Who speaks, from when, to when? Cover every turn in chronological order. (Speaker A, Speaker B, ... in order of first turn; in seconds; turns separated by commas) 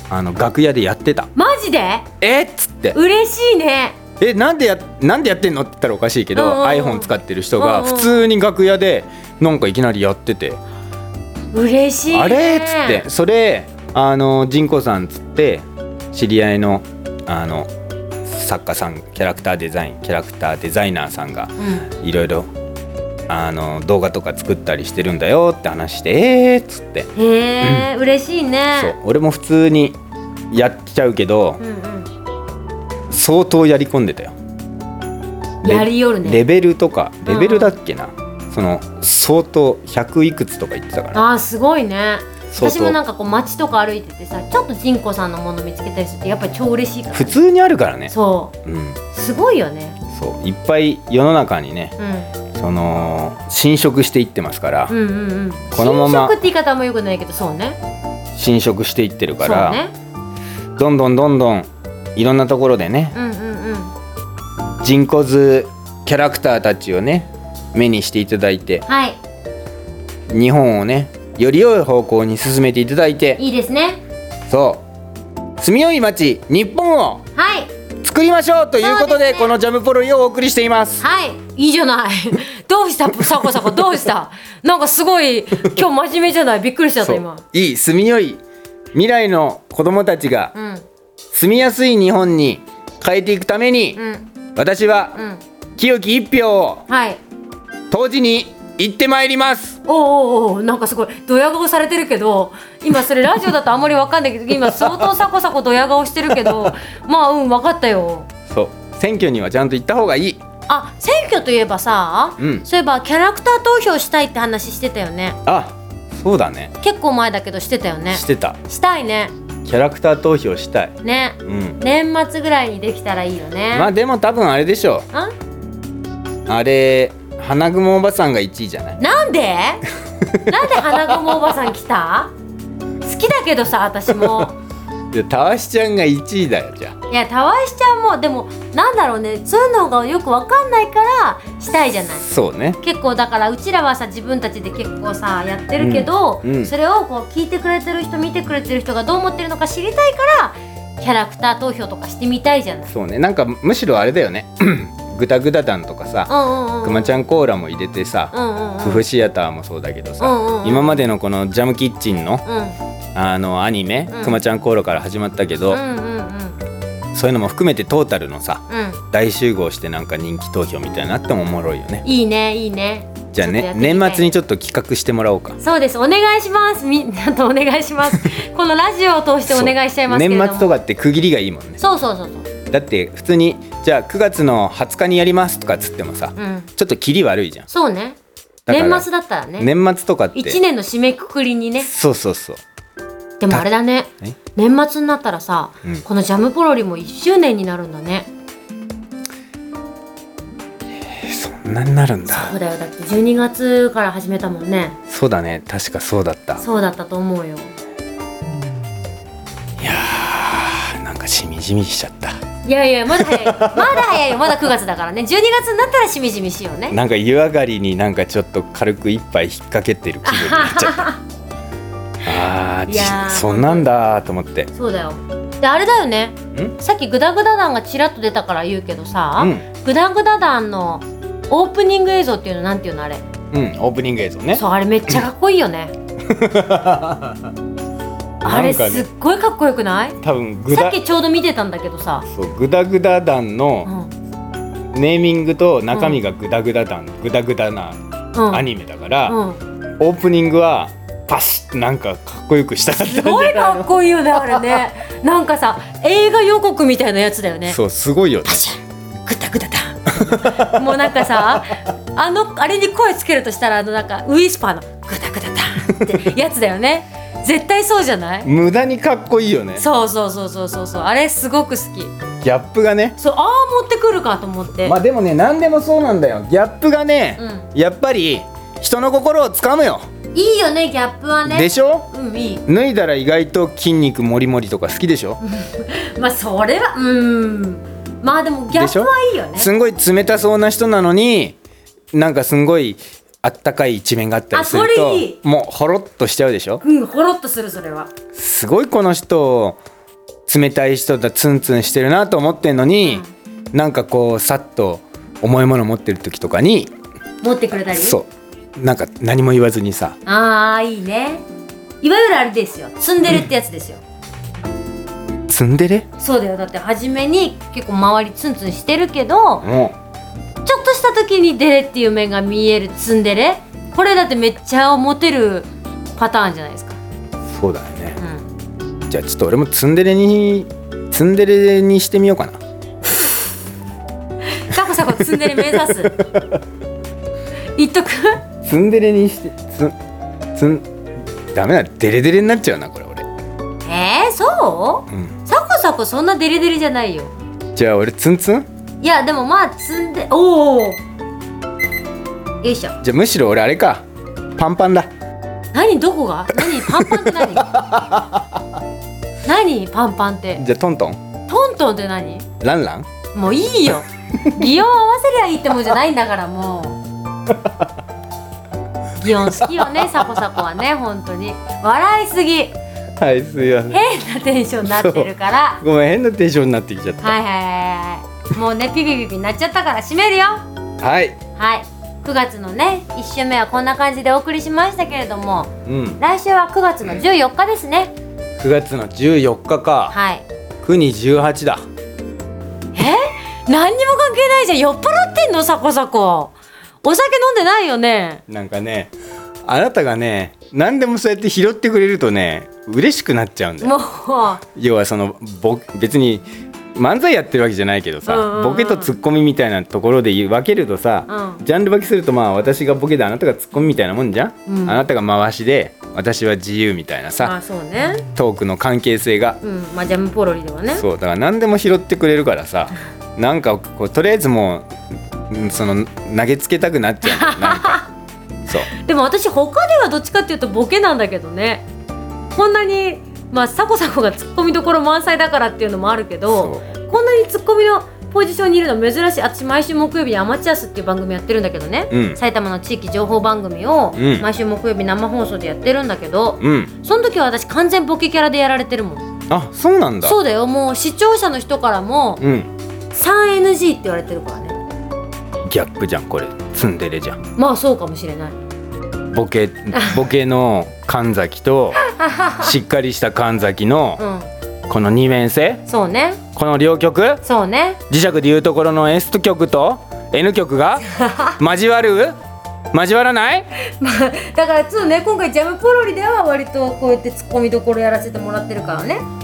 Speaker A: 0.1-1.3, Speaker B: 1.4-2.1, Speaker A: 2.2-3.0, Speaker B: 2.9-4.0, Speaker A: 4.2-10.6, Speaker B: 6.3-8.3, Speaker B: 11.5-13.1, Speaker A: 12.1-17.7, Speaker A: 18.2-22.5, Speaker B: 21.6-21.9, Speaker A: 23.3-27.1, Speaker B: 27.1-28.9, Speaker A: 27.6-27.9, Speaker A: 28.8-30.0, Speaker A: 30.5-31.6, Speaker B: 31.6-32.1, Speaker A: 33.1-34.3, Speaker B: 35.6-36.4, Speaker A: 35.6-41.2, Speaker B: 37.3-37.7, Speaker B: 41.1-47.4, Speaker A: 42.5-43.0, Speaker A: 47.1-48.1, Speaker B: 48.1-48.5, Speaker A: 48.6-49.0, Speaker B: 49.1-50.0, Speaker A: 50.1-52.0, Speaker B: 52.0-52.3, Speaker A: 52.5-55.0, Speaker B: 54.9-57.8, Speaker A: 55.7-56.4, Speaker A: 58.4-59.8, Speaker B: 59.4-59.9, Speaker A: 60.8-63.2, Speaker B: 63.1-63.9, Speaker A: 64.8-68.8, Speaker B: 68.9-69.2, Speaker A: 70.3-73.4, Speaker B: 73.4-74.0, Speaker A: 74.5-74.8, Speaker A: 75.6-77.2, Speaker B: 77.3-77.7, Speaker A: 78.0-81.0, Speaker B: 78.8-79.5, Speaker B: 81.0-87.4, Speaker A: 87.0-88.4, Speaker A: 88.9-90.5, Speaker B: 90.5-90.8, Speaker A: 91.3-94.0, Speaker B: 94.0-94.3, Speaker A: 94.5-95.2, Speaker B: 95.2-95.4, Speaker A: 95.8-96.8, Speaker B: 96.9-97.2, Speaker A: 97.9-99.8, Speaker B: 99.8-108.3, Speaker A: 104.5-105.1, Speaker A: 106.3-106.7, Speaker A: 108.5-110.4, Speaker B: 110.7-115.4, Speaker A: 112.4-112.7, Speaker A: 115.5-116.7, Speaker B: 116.8-119.3, Speaker A: 118.1-118.6, Speaker A: 119.7-121.0, Speaker B: 121.0-123.9, Speaker A: 121.5-121.8, Speaker A: 123.7-125.1, Speaker A: 126.5-129.0, Speaker B: 129.0-129.8, Speaker A: 130.2-131.6, Speaker B: 130.5-132.3, Speaker B: 133.0-134.6, Speaker A: 134.1-134.5, Speaker A: 135.1-137.0, Speaker B: 137.1-142.3, Speaker A: 142.1-142.8, Speaker B: 142.8-152.9, Speaker A: 145.8-146.7, Speaker A: 152.9-162.4, Speaker B: 156.3-157.2, Speaker B: 158.3-159.0, Speaker B: 160.2-161.1, Speaker B: 162.4-162.8, Speaker A: 163.2-165.8, Speaker B: 164.1-164.4, Speaker B: 165.7-166.6, Speaker A: 167.1-172.1, Speaker B: 168.7-169.0, Speaker B: 172.0-174.3, Speaker A: 173.3-175.6, Speaker B: 175.6-180.8, Speaker A: 179.5-181.8, Speaker B: 181.8-182.5, Speaker A: 182.7-187.7, Speaker B: 186.4-186.7, Speaker B: 187.7-188.2, Speaker A: 188.7-190.6, Speaker B: 188.7-189.7, Speaker B: 190.3-191.9, Speaker A: 191.8-192.6, Speaker B: 193.4-198.3, Speaker A: 201.0-202.6, Speaker B: 202.3-205.0, Speaker A: 205.1-206.6, Speaker B: 206.6-207.7, Speaker A: 209.8-212.4, Speaker B: 212.6-217.0, Speaker A: 213.1-214.7, Speaker A: 216.9-221.1, Speaker B: 220.2-221.2, Speaker A: 222.2-224.7, Speaker B: 222.9-223.9, Speaker B: 224.7-233.2, Speaker A: 229.4-229.7, Speaker A: 233.5-234.6, Speaker B: 234.5-235.9, Speaker A: 236.2-237.5, Speaker A: 238.4-239.1, Speaker B: 238.4-240.2, Speaker A: 240.2-241.0, Speaker B: 240.7-242.3, Speaker A: 242.3-243.9, Speaker B: 243.8-244.1, Speaker A: 244.9-249.4, Speaker B: 245.9-246.2, Speaker B: 248.3-248.7, Speaker B: 249.3-249.6, Speaker A: 250.0-254.7, Speaker B: 253.0-257.8, Speaker A: 257.6-258.7, Speaker B: 258.5-268.5, Speaker A: 260.1-261.6, Speaker A: 268.4-269.9, Speaker B: 269.8-272.1, Speaker A: 272.4-273.2, Speaker B: 273.2-275.0, Speaker A: 274.8-280.0, Speaker B: 277.4-277.7, Speaker B: 280.3-282.6, Speaker A: 281.5-282.1, Speaker A: 282.7-285.4, Speaker B: 285.4-289.7, Speaker A: 288.7-291.6, Speaker A: 292.1-296.8, Speaker B: 294.5-295.4, Speaker B: 296.8-298.1, Speaker A: 298.4-299.8, Speaker A: 300.5-306.9, Speaker B: 303.0-303.3, Speaker B: 307.4-308.2, Speaker A: 307.7-310.2, Speaker B: 310.3-311.4, Speaker B: 312.0-314.0, Speaker A: 315.5-316.1, Speaker B: 316.2-319.7, Speaker A: 319.6-319.9, Speaker B: 320.6-327.0, Speaker A: 327.5-328.2, Speaker B: 328.2-328.5, Speaker A: 329.1-332.6, Speaker B: 334.5-336.2, Speaker A: 335.0-336.6, Speaker B: 337.8-338.4, Speaker A: 338.6-339.9, Speaker A: 340.6-340.9, Speaker A: 341.5-343.3, Speaker B: 343.9-347.3, Speaker A: 347.8-348.7, Speaker B: 349.0-351.0, Speaker B: 352.6-353.0, Speaker A: 353.0-354.1, Speaker A: 354.6-355.1, Speaker B: 355.7-357.8, Speaker A: 356.6-358.4, Speaker B: 359.4-360.6, Speaker A: 360.6-361.2, Speaker B: 361.5-362.5, Speaker A: 362.6-363.1, Speaker B: 363.3-367.0, Speaker A: 367.5-367.9, Speaker B: 369.2-372.8, Speaker A: 369.3-370.4, Speaker A: 373.2-374.0, Speaker B: 373.9-375.8, Speaker A: 374.8-377.4, Speaker B: 377.2-380.6, Speaker A: 381.0-381.4, Speaker B: 381.6-388.1, Speaker A: 385.9-386.2, Speaker A: 388.6-390.2, Speaker B: 390.1-390.4, Speaker A: 390.8-391.9, Speaker B: 392.9-398.4, Speaker A: 398.5-399.1, Speaker A: 399.7-404.0, Speaker B: 403.8-404.6, Speaker A: 404.7-417.6, Speaker B: 408.3-409.2, Speaker B: 411.3-411.6, Speaker B: 414.7-415.0, Speaker B: 417.4-418.3, Speaker A: 418.3-419.6, Speaker B: 419.6-421.0, Speaker A: 420.9-424.9, Speaker A: 425.5-428.0, Speaker B: 427.2-428.1, Speaker B: 428.9-431.9, Speaker B: 432.5-449.2, Speaker A: 436.5-436.9, Speaker A: 442.1-442.4, Speaker A: 444.2-444.5, Speaker A: 446.6-446.9, Speaker A: 449.5-450.4, Speaker B: 450.2-452.4, Speaker A: 452.4-452.7, Speaker B: 453.1-454.8, Speaker A: 455.7-457.4, Speaker B: 457.6-458.6, Speaker A: 459.3-462.0, Speaker B: 462.1-462.7, Speaker A: 462.6-464.2, Speaker B: 464.2-464.5, Speaker A: 464.9-465.8, Speaker B: 465.9-466.4, Speaker A: 466.5-467.4, Speaker B: 467.4-468.0, Speaker A: 468.1-471.1, Speaker B: 471.1-471.6, Speaker A: 471.6-472.4, Speaker A: 472.9-473.7, Speaker B: 473.8-479.2